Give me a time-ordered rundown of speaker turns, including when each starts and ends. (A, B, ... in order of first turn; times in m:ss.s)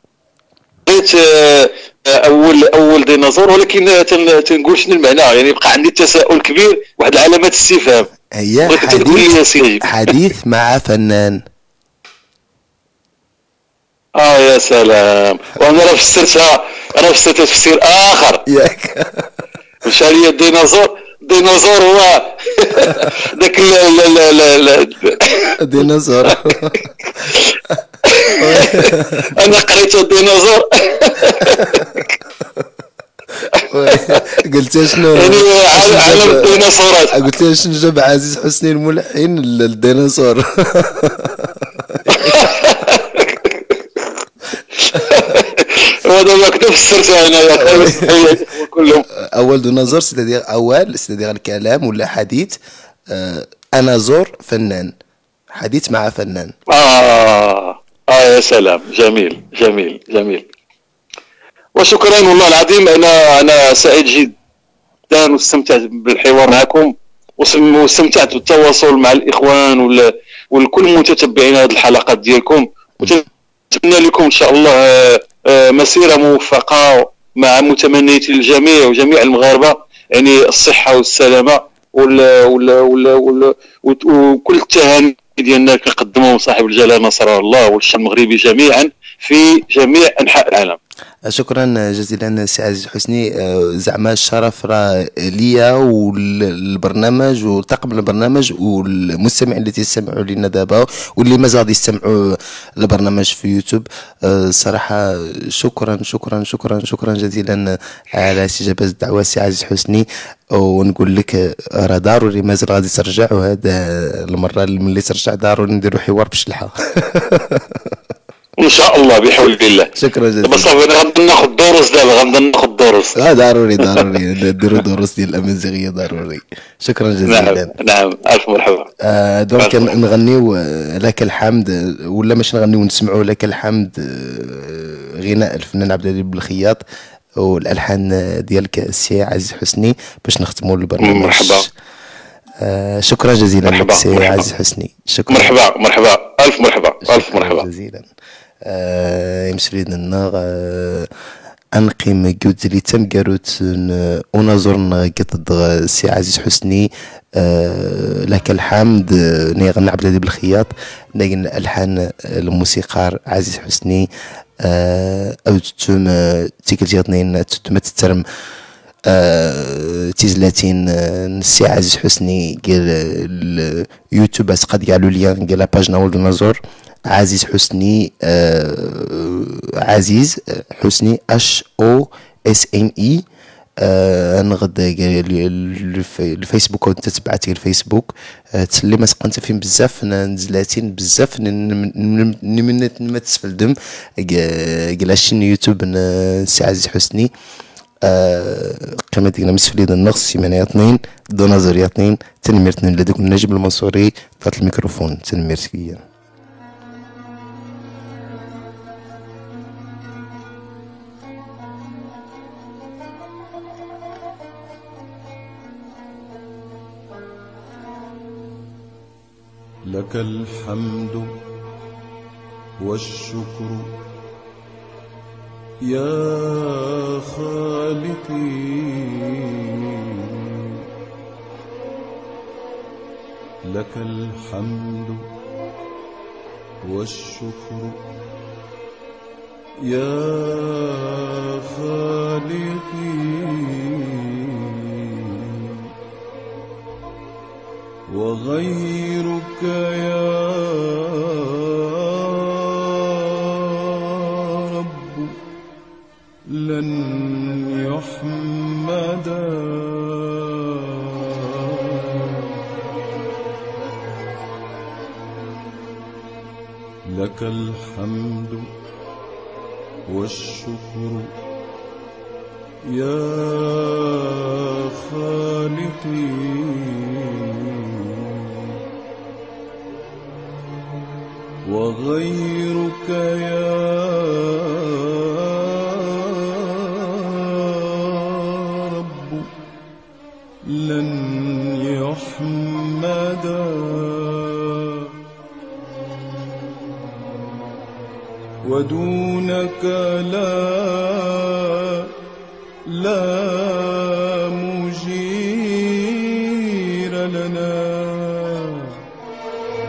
0:00.9-0:08.1 A
0:08.4-0:11.4 B
0:08.6-0:09.9 A
0:14.2-0:18.4 A
0:18.5-0:19.3 B
0:19.8-0:25.6 A
0:25.6-0:26.9 B
0:27.2-0:27.5 A
0:28.0-0:32.1 A
0:28.4-0:29.4 B
0:33.6-0:34.2 A
0:33.7-0:42.4 B
0:35.1-0:37.2 A
0:42.1-0:43.8 A
0:44.8-0:49.0 A
0:47.6-0:48.3 B
0:49.2-0:52.6 B
0:53.1-0:54.9 B
0:55.5-0:56.5 B
0:56.7-1:00.5 A
1:01.8-1:04.3 A
1:05.1-1:30.8 A
1:31.3-1:58.0 B
1:58.6-1:59.9 A
2:00.0-2:00.7 B
2:00.4-2:03.2 A
2:03.2-2:07.7 B
2:07.3-2:08.9 A
2:09.0-2:16.8 B
2:09.6-2:09.9 A
2:17.4-2:21.7 B
2:21.0-2:21.7 A
2:22.6-2:25.5 B
2:23.6-2:24.4 A
2:25.3-2:27.7 A
2:27.0-2:28.1 B
2:28.6-2:31.1 B
2:31.8-2:44.1 B
2:44.6-2:48.2 B
2:49.1-2:56.6 B
2:57.1-3:03.2 B
3:03.8-3:17.3 B
3:18.0-3:26.0 B
3:39.9-3:41.3 C
3:42.8-3:43.9 C
3:45.9-3:48.5 C
3:53.7-3:55.2 C
3:56.9-3:58.0 C
3:59.9-4:00.8 C
4:01.8-4:03.3 C
4:08.1-4:10.5 C
4:15.0-4:15.3 C
4:16.6-4:20.0 C
4:27.1-4:28.7 C
4:30.1-4:31.3 C
4:32.9-4:33.8 C
4:35.1-4:36.2 C
4:41.7-4:44.0 C
4:50.8-4:53.8 C
4:58.7-5:01.0 C
5:02.9-5:03.9 C
5:04.6-5:05.8 C
5:07.2-5:08.4 C